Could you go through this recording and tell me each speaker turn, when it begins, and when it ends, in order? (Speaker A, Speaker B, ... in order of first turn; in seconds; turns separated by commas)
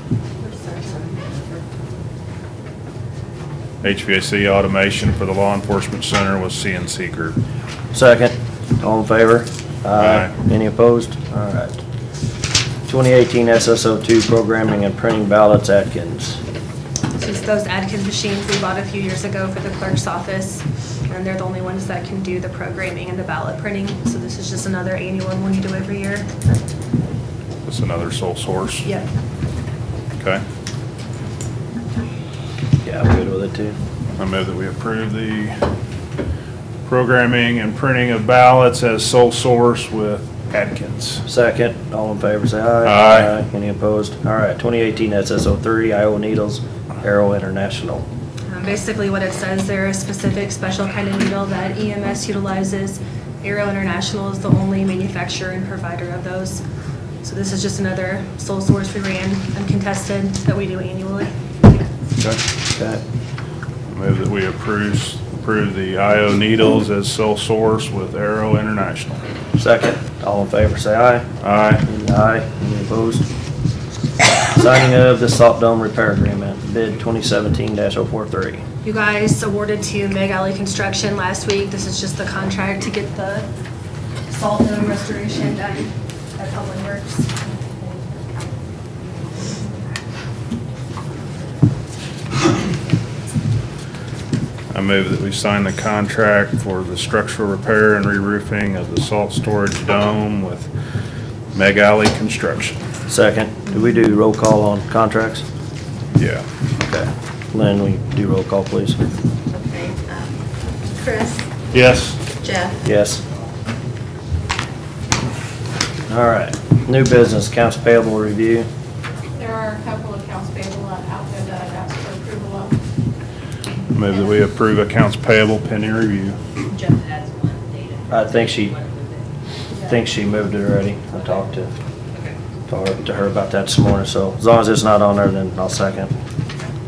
Speaker A: 0.4-1.6, Speaker B: 3.8-7.4, Speaker C: 7.9-11.8, Speaker B: 10.0-10.3, Speaker C: 12.9-16.4, Speaker D: 17.1-26.3, Speaker B: 27.7-28.9, Speaker B: 30.2-30.4, Speaker C: 32.8-33.8, Speaker B: 34.1-35.6, Speaker B: 36.9-41.2, Speaker C: 41.2-48.0, Speaker B: 42.8-43.3, Speaker D: 48.5-56.6, Speaker D: 57.2-61.8, Speaker C: 62.2-63.0, Speaker B: 63.9-69.2, Speaker C: 69.6-71.2, Speaker B: 71.4-71.8, Speaker C: 71.8-73.2, Speaker C: 74.5-78.6, Speaker D: 78.8-83.5, Speaker D: 84.3-88.0, Speaker B: 94.7-100.7, Speaker B: 101.5-102.8, Speaker C: 103.1-105.4, Speaker B: 106.1-106.4, Speaker C: 106.8-109.0, Speaker A: 109.5-111.4, Speaker B: 111.7-112.2, Speaker A: 112.4-112.8, Speaker C: 112.8-113.2, Speaker C: 116.1-118.7, Speaker E: 119.3-122.8, Speaker B: 123.9-126.4, Speaker F: 126.9-129.1, Speaker C: 128.1-128.8, Speaker C: 129.8-131.7, Speaker C: 132.7-136.1